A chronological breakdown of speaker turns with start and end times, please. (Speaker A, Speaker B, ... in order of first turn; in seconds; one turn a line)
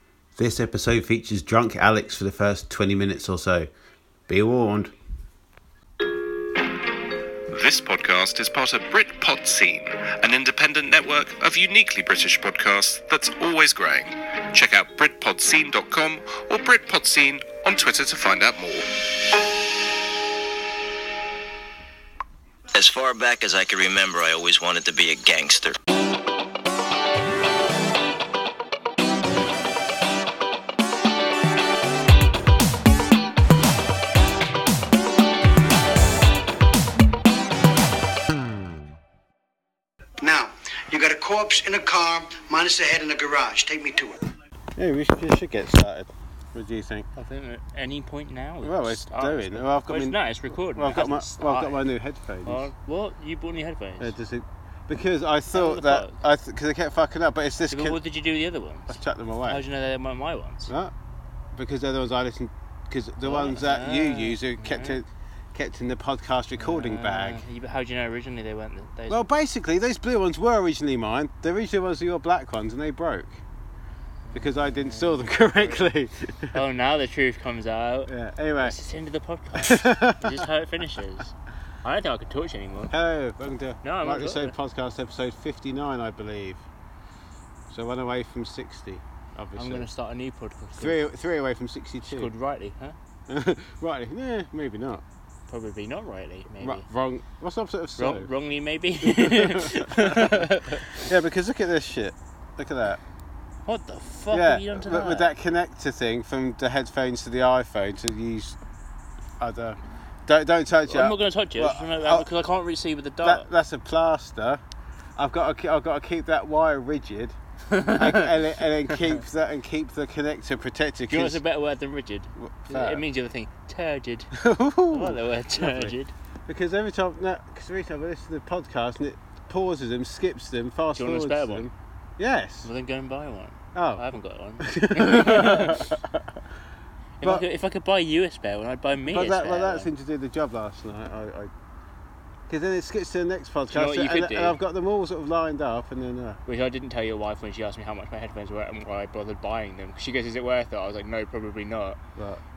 Speaker A: 0.3-3.7
Speaker A: 4.3-4.9
Speaker B: 7.5-19.3
Speaker C: 22.7-25.8
Speaker D: 40.2-44.2
Speaker A: 44.8-47.1
Speaker E: 47.1-51.8
Speaker A: 48.6-52.7
Speaker E: 52.4-54.1
Speaker A: 54.0-58.0
Speaker E: 55.5-56.2
Speaker E: 57.7-60.7
Speaker A: 58.9-59.6
Speaker A: 60.7-60.9
Speaker A: 61.5-67.4
Speaker E: 63.2-65.0
Speaker E: 66.6-69.3
Speaker A: 69.1-73.4
Speaker E: 74.3-75.9
Speaker A: 74.3-76.5
Speaker E: 76.5-82.9
Speaker A: 78.1-78.8
Speaker A: 79.5-80.4
Speaker A: 82.9-86.6
Speaker E: 83.8-84.5
Speaker A: 87.7-89.8
Speaker E: 89.5-91.0
Speaker A: 90.8-92.3
Speaker E: 92.0-93.0
Speaker A: 93.3-95.0
Speaker E: 95.5-96.9
Speaker A: 96.6-98.3
Speaker E: 98.0-101.0
Speaker A: 99.0-103.0
Speaker E: 103.7-105.3
Speaker A: 104.3-108.6
Speaker A: 109.4-112.3
Speaker E: 110.9-113.5
Speaker A: 113.2-114.6
Speaker A: 115.2-117.4
Speaker E: 117.7-119.2
Speaker A: 117.9-121.4
Speaker E: 121.1-124.3
Speaker A: 122.4-123.0
Speaker A: 124.3-126.0
Speaker E: 124.9-126.1
Speaker A: 126.5-132.7
Speaker E: 130.9-131.7
Speaker E: 132.6-135.9
Speaker A: 133.7-134.0
Speaker A: 134.6-136.3
Speaker E: 137.2-139.9
Speaker A: 139.1-141.5
Speaker A: 142.5-146.4
Speaker E: 143.7-144.6
Speaker E: 146.4-152.0
Speaker A: 152.2-152.4